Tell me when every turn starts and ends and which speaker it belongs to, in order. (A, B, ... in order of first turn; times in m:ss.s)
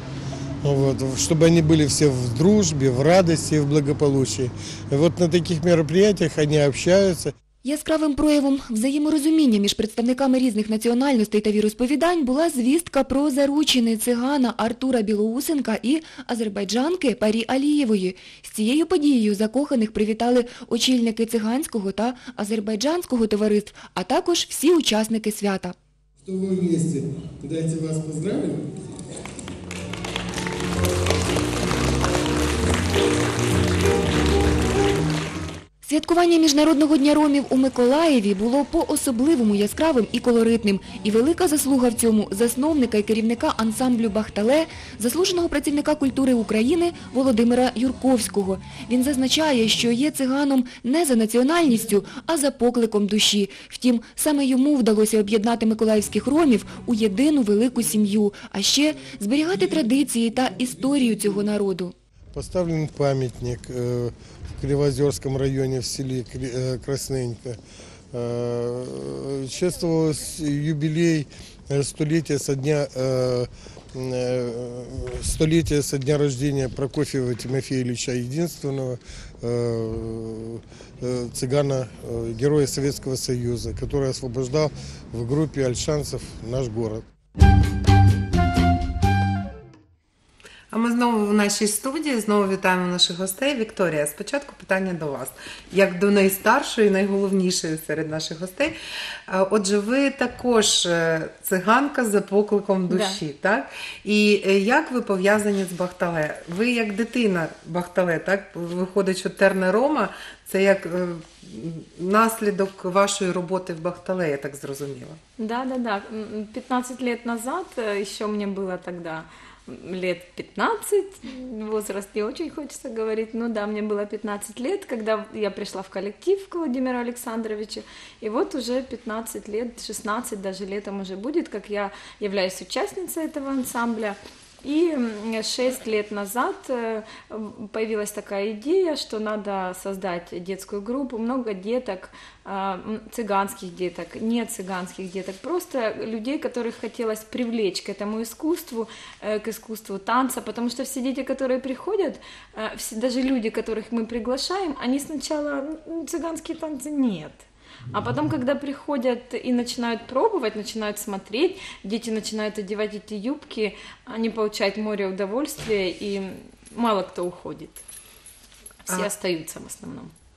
0:00.6-0:07.3 A
0:07.6-0:25.8 B
0:26.2-0:28.7 A
0:35.8-1:01.9 B
1:02.3-1:07.6 A
1:08.1-1:27.1 A
1:30.7-1:38.8 C
1:39.3-1:55.2 C
1:42.9-1:43.2 D
1:55.4-2:47.8 D
2:48.9-2:50.1 D